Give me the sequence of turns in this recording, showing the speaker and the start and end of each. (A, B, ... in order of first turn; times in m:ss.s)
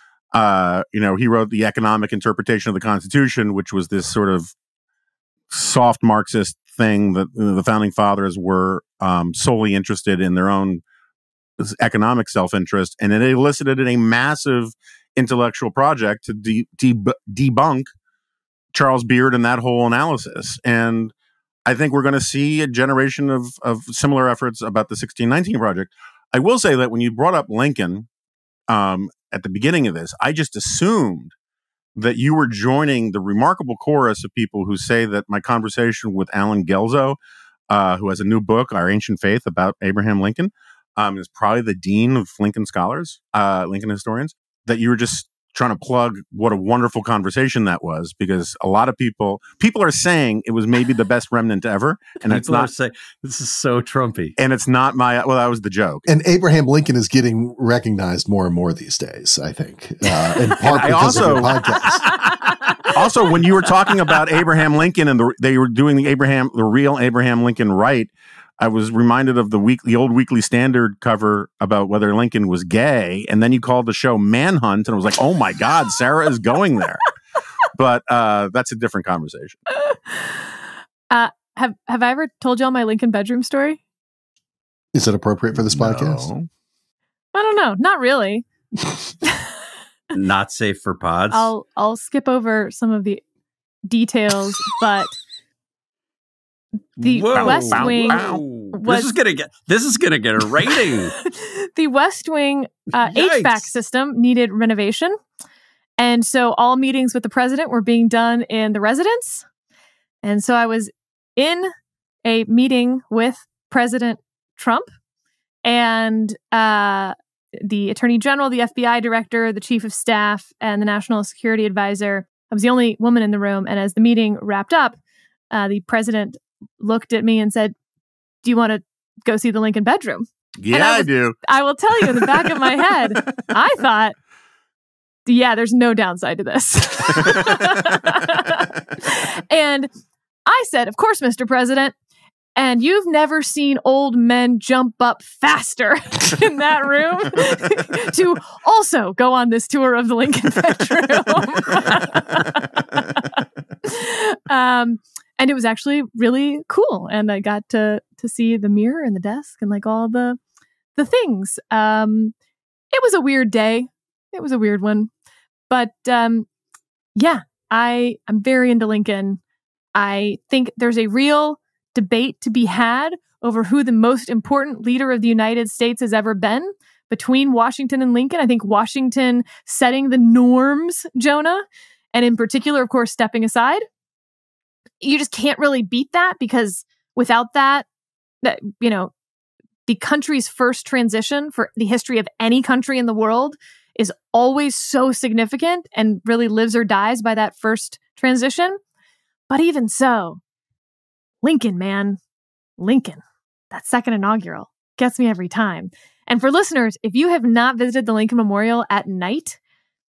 0:00.3-0:04.5 A
0:05.5-0:10.8 A
0:11.6-0:17.9 A
0:18.7-0:21.1 A
0:21.6-0:28.1 A
0:28.7-0:31.3 A
0:32.0-0:37.2 A
0:37.7-0:52.7 A
0:52.3-0:54.4 B
0:54.4-0:56.0 A
0:56.0-1:02.0 C
1:00.6-1:02.2 A
1:01.9-1:02.9 D
1:02.8-1:19.6 A
1:19.9-1:20.4 D
1:21.1-1:23.8 D
1:24.9-1:26.3 C
1:25.5-1:26.5 A
1:27.3-1:28.4 D
1:30.1-1:31.5 B
1:31.3-1:33.2 D
1:33.9-1:35.2 D
1:37.0-1:39.1 D
1:37.0-1:41.2 B
1:37.3-1:38.4 A
1:41.3-1:45.2 D
1:43.0-1:43.7 B
1:46.0-1:49.4 D
1:50.2-1:51.7 D
1:52.2-1:54.9 D
1:55.6-2:05.0 D
2:05.5-2:07.7 D
2:08.4-2:14.2 D
2:10.6-2:11.4 A
2:11.9-2:13.5 A
2:15.3-2:19.9 D
2:20.5-2:21.9 D
2:22.6-2:33.2 D
2:33.8-2:40.4 D
2:41.0-2:42.3 D
2:42.9-2:45.1 D
2:45.7-2:46.5 D
2:47.2-2:49.4 D
2:49.9-3:03.8 D
3:05.0-3:07.8 D
3:08.4-3:09.1 D
3:09.9-3:18.8 D
3:19.5-3:20.4 D
3:21.4-3:22.2 D
3:22.8-3:23.2 D
3:23.7-3:29.6 D